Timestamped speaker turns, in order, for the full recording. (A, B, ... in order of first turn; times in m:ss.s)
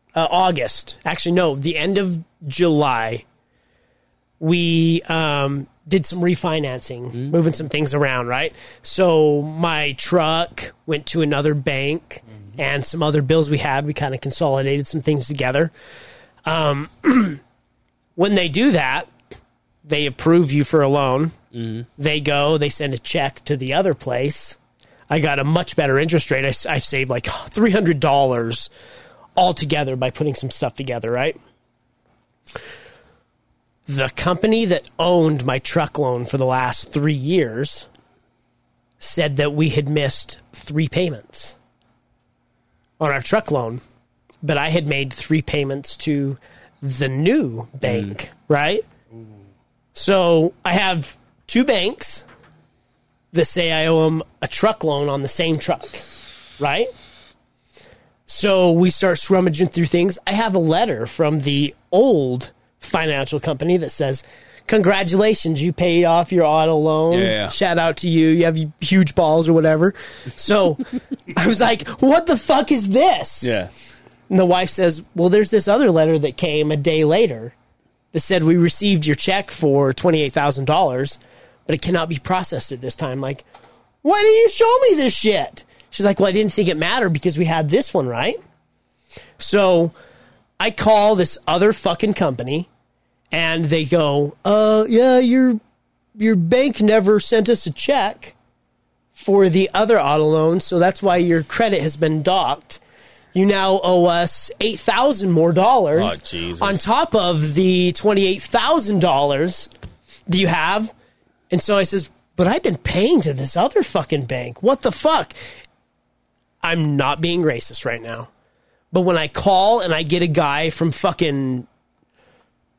0:00.1-0:03.2 A
0:04.4-0:15.7 A
0:16.4-0:17.4 A
0:18.2-0:19.1 A
0:19.8-0:21.4 A
0:21.5-0:21.8 B
0:22.0-0:24.6 A
0:25.1-0:28.7 A
0:29.4-0:31.4 A
0:33.9-0:37.9 A
0:39.0-0:41.6 A
0:43.0-0:43.8 A
0:44.4-0:48.8 A
0:47.8-0:48.1 B
0:49.9-0:52.2 A
0:53.3-0:56.0 A
0:56.6-0:56.9 A
0:58.3-1:13.5 A
1:07.1-1:07.5 B
1:13.4-1:13.7 B
1:14.3-1:17.5 A
1:18.1-1:23.4 A
1:24.0-1:28.4 A
1:29.4-1:29.9 A
1:30.6-1:32.7 A
1:33.3-1:35.6 A
1:36.2-1:38.3 A
1:39.1-1:42.8 A
1:43.3-1:49.7 A
1:45.9-1:46.8 B
1:50.3-1:50.9 A
1:51.5-1:55.3 A
1:56.6-1:58.3 A
1:58.9-2:01.7 A